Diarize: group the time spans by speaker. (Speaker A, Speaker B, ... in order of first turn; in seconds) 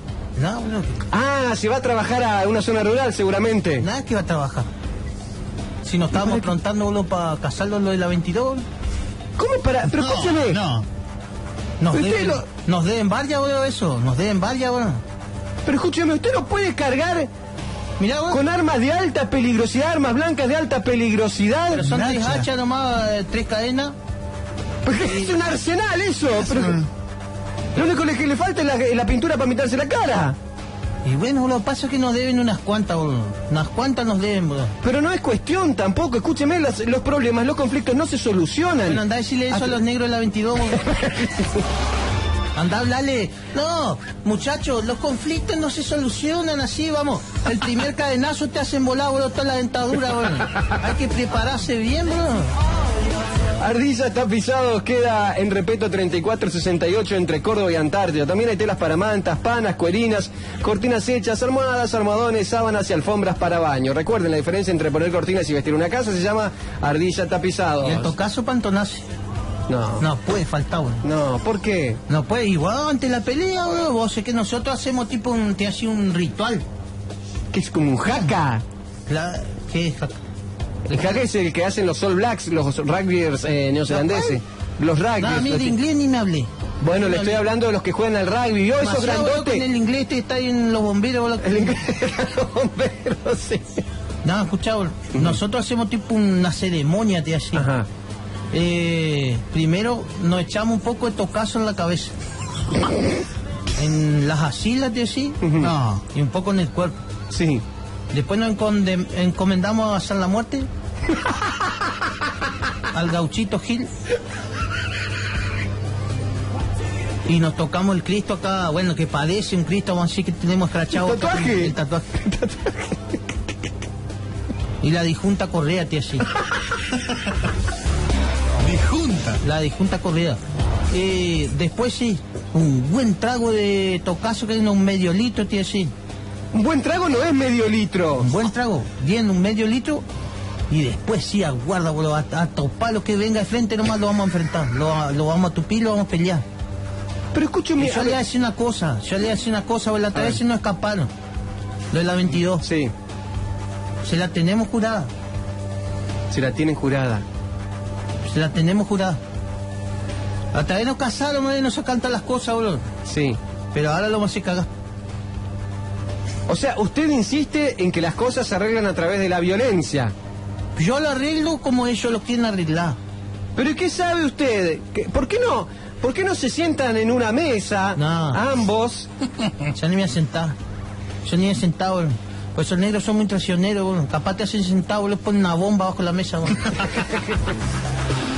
Speaker A: 0.3-1.0, 3.8-4.7, 5.8-8.7, 11.8-15.0, 18.0-18.4, 21.7-23.9, 25.0-25.3, 31.0-34.7, 38.9-40.9, 42.5-52.5, 67.8-69.0, 70.0-71.0, 72.1-76.6, 78.1-78.3, 79.1-80.2, 80.9-81.2, 83.9-84.4, 85.2-87.4, 88.8-91.8, 94.2-97.7, 98.5-102.1, 103.7-105.4, 106.1-107.0, 108.1-110.7, 112.9-113.9, 117.2-122.2, 124.8-126.3, 129.4-130.4, 130.9-135.9, 138.2-140.0, 140.7-146.4, 147.8-151.1, 151.9-152.6, 154.0-155.1, 158.3-159.2, 160.5-162.8, 163.7-164.7, 170.8-173.0, 177.9-178.4, 179.7-180.6, 181.2-187.0
Speaker B: 1.1-3.8, 6.2-6.5, 9.4-10.6, 11.9-12.4, 15.6-17.3, 18.3-21.9, 24.8-26.8, 27.7-30.4, 34.8-39.7, 40.7-41.6, 53.6-68.1, 69.7-70.0, 71.0-72.0, 77.5-78.6, 80.9-85.7, 86.8-89.6, 91.4-93.8, 97.5-97.9, 105.4-105.7, 107.3-107.6, 120.9-123.2, 136.5-138.3, 147.3-148.2, 150.1-150.4, 152.6-152.9, 156.3-157.2, 163.1-163.4, 166.5-170.1, 173.5-179.1
Speaker C: 10.0-10.9, 21.8-22.4, 26.5-26.9, 105.6-106.0, 128.6-129.4